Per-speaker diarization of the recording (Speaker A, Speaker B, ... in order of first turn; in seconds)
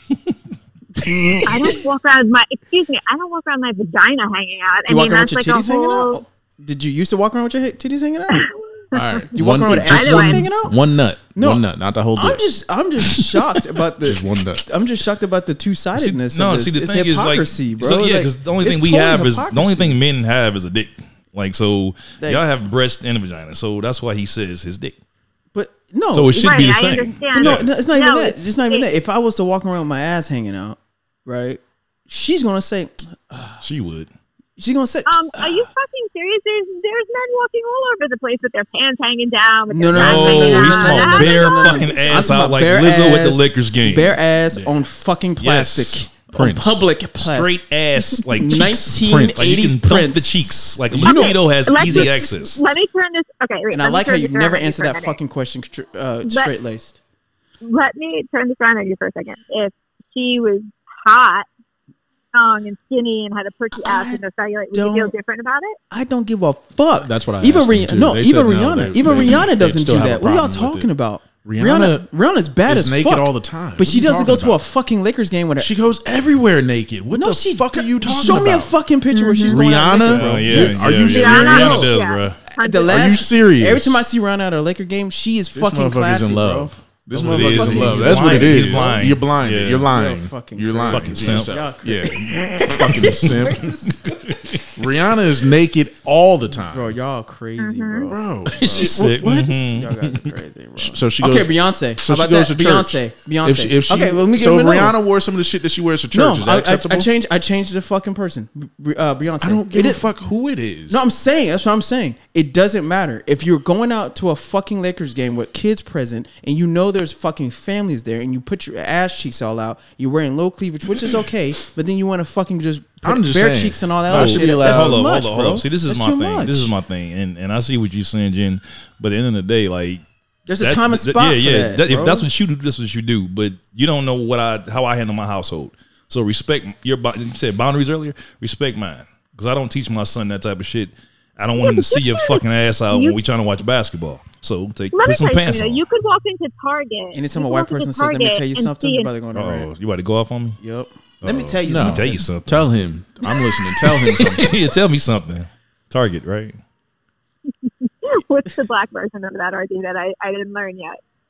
Speaker A: 1.0-1.5, 4.9-8.5, 9.3-10.8, 11.3-20.0, 25.5-26.6, 27.4-33.6, 34.6-35.7, 39.7-47.6, 48.4-52.3, 53.7-57.0, 63.8-64.2, 64.7-65.1, 65.9-75.7, 77.1-81.9, 82.6-89.2, 89.9-94.0, 96.7-105.0, 106.1-110.1, 110.9-126.7, 130.5-132.3, 147.1-149.7, 150.6-152.2
Speaker B: 1.4-6.2, 9.8-10.5, 26.4-28.9, 35.1-42.3, 51.0-55.2, 56.3-56.5, 57.6-61.5, 62.3-65.8, 79.1-79.7, 81.1-83.3, 97.6-98.1, 141.6-143.2, 144.9-149.1, 157.7-161.0
Speaker C: 8.9-12.4, 14.0-14.7, 44.5-44.8, 46.2-46.8, 48.8-49.7, 66.9-70.9, 71.4-72.1, 72.7-74.6, 75.6-78.8, 79.5-81.9, 82.9-84.0, 85.5-94.0, 94.7-97.0, 98.1-99.6, 100.8-107.1, 109.4-111.0, 123.0-125.0, 151.7-154.6
Speaker D: 15.9-24.9, 26.1-27.7, 33.6-34.1, 39.9-44.2, 45.4-46.1, 47.2-52.6, 80.0-82.4, 87.2-89.9, 90.9-91.6, 93.0-94.6, 98.5-100.3, 124.1-130.0, 130.6-145.8, 149.3-150.6, 151.2-152.7, 154.1-156.6